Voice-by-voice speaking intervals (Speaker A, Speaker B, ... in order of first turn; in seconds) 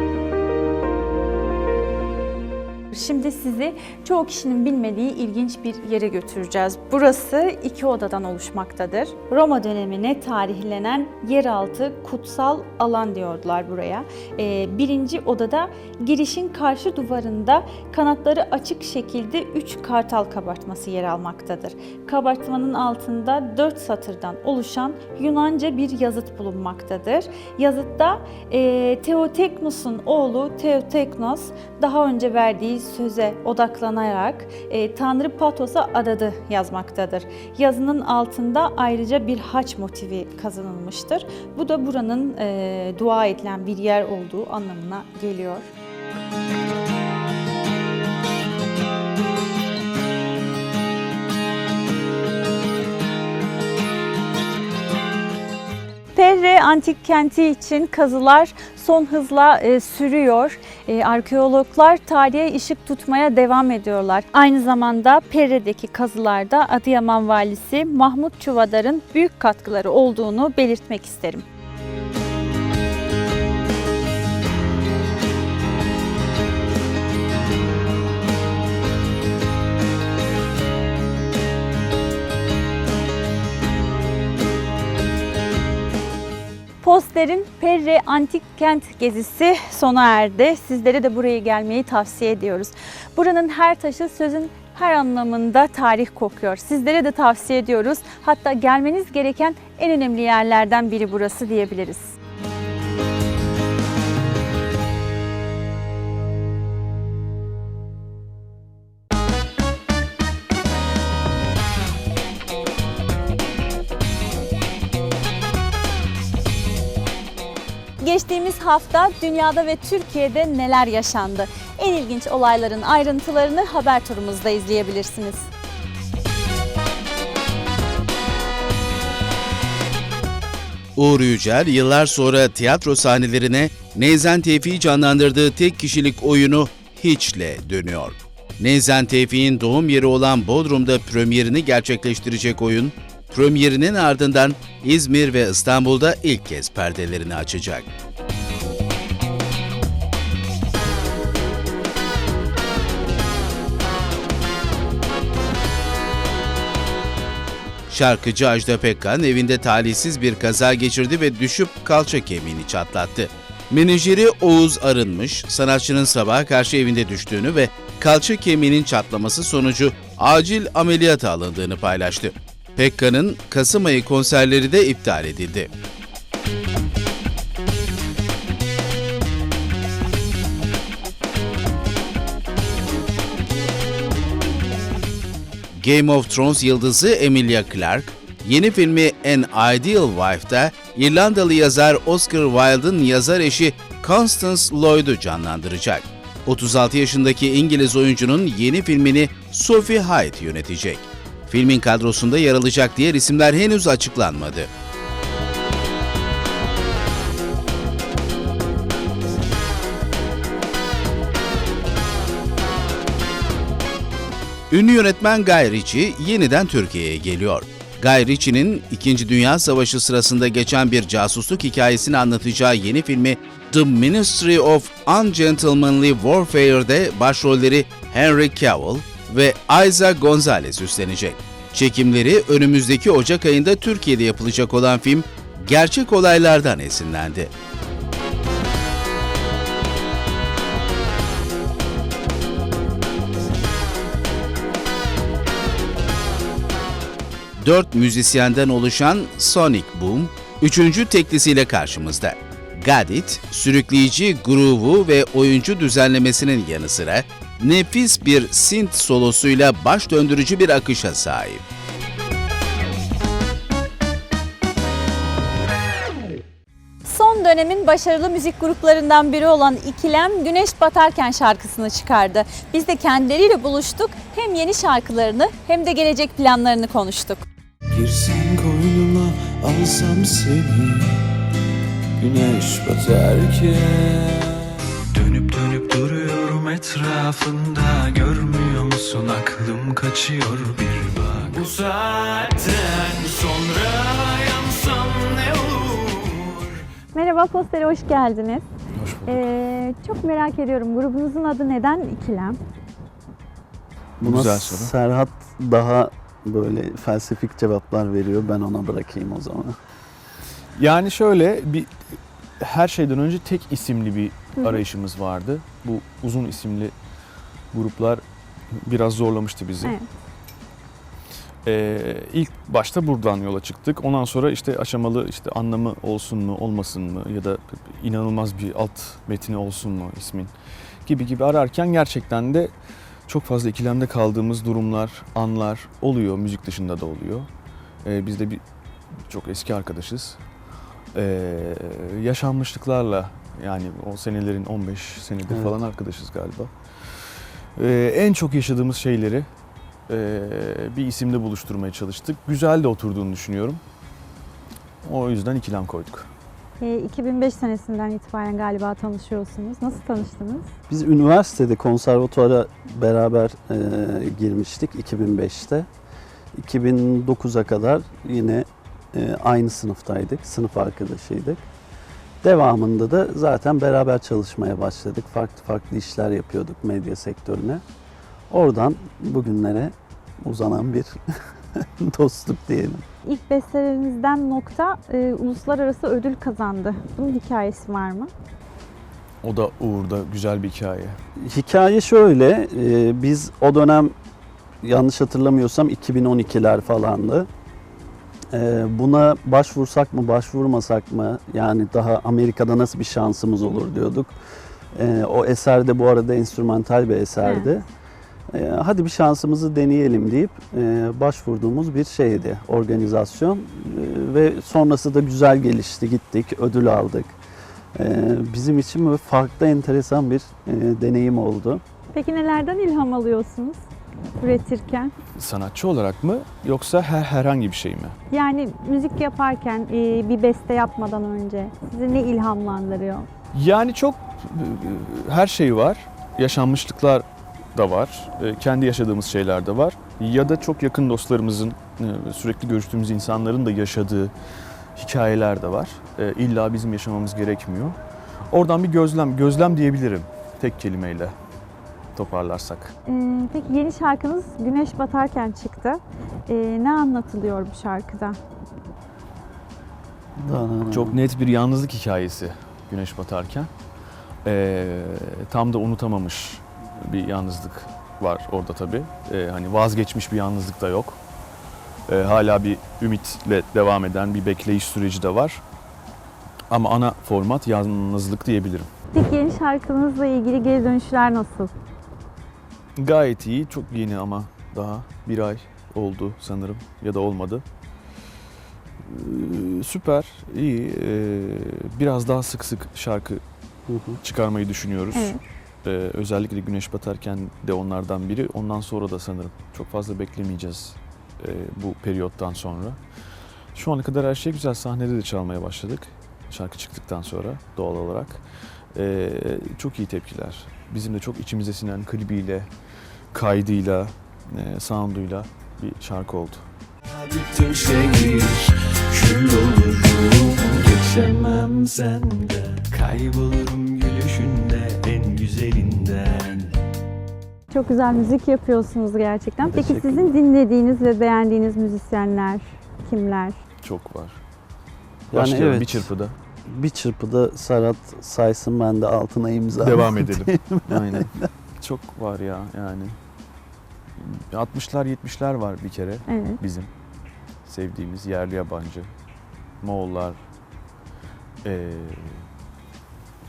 Speaker A: 2.9-45.7, 56.1-71.5, 86.8-102.2, 118.0-125.5, 267.1-277.4, 297.1-298.7, 299.3-302.6, 314.6-314.8, 356.8-360.7, 383.2-388.3, 407.4-407.7, 422.1-423.9, 424.4-425.1, 428.3-433.3, 453.1-458.4, 479.1-481.7, 495.1-495.4, 527.7-533.6, 546.3-546.6
Speaker B: 131.0-147.9, 157.9-175.7, 185.8-204.7, 214.7-237.5, 247.6-261.6
Speaker C: 277.9-281.2, 282.2-296.6, 310.9-311.2, 312.9-314.0, 314.6-316.9, 319.2-319.8, 321.7-322.3, 324.6-324.9, 331.6-331.9, 333.6-334.0, 335.2-336.0, 341.4-341.7, 342.7-343.0, 345.1-345.6, 350.4-352.4, 352.9-353.8, 355.5-356.2, 390.1-391.1, 425.5-427.0, 427.7-428.1, 433.6-433.9, 436.4-436.9, 442.9-443.4, 472.9-473.4, 484.6-485.1, 506.8-507.7, 509.0-509.4, 510.2-512.2, 513.4-513.8, 514.8-515.2, 515.9-516.3, 517.5-518.5, 519.2-522.1, 522.7-526.4, 535.4-535.7, 544.9-545.4
Speaker D: 282.4-282.8, 286.2-286.9, 289.9-290.9, 295.1-295.7, 304.3-304.8, 310.9-311.9, 312.7-314.3, 314.9-316.9, 317.8-318.1, 318.9-319.9, 321.9-330.5, 331.1-332.7, 333.3-337.5, 338.1-338.6, 339.3-340.3, 341.2-341.5, 342.2-346.7, 347.8-349.4, 350.1-350.4, 350.9-353.7, 355.1-356.1, 389.5-391.0, 425.5-428.0, 433.7-434.2, 435.2-435.9, 436.5-437.2, 437.8-444.3, 445.0-447.9, 448.5-451.3, 452.2-452.9, 460.9-463.7, 464.5-466.5, 467.1-471.1, 472.1-475.6, 476.7-478.9, 483.0-487.6, 489.3-493.3, 494.3-495.3, 495.9-500.9, 501.6-502.9, 503.8-508.4, 509.1-512.7, 513.4-514.1, 514.7-515.4, 516.0-516.5, 521.9-522.3, 525.0-525.4, 533.9-534.3, 535.7-536.3, 539.9-541.3, 541.8-543.1, 544.6-546.9, 547.7-549.0, 549.8-550.4
Speaker E: 304.2-309.8, 345.5-345.8, 360.9-365.9, 366.6-371.6, 372.4-377.8, 378.5-381.2, 381.8-383.0, 391.4-394.1, 394.8-397.5, 398.5-404.3, 404.9-407.9, 408.5-417.4, 418.0-421.8, 460.4-461.2, 493.9-494.2, 529.6-530.3, 535.3-536.1, 536.7-541.5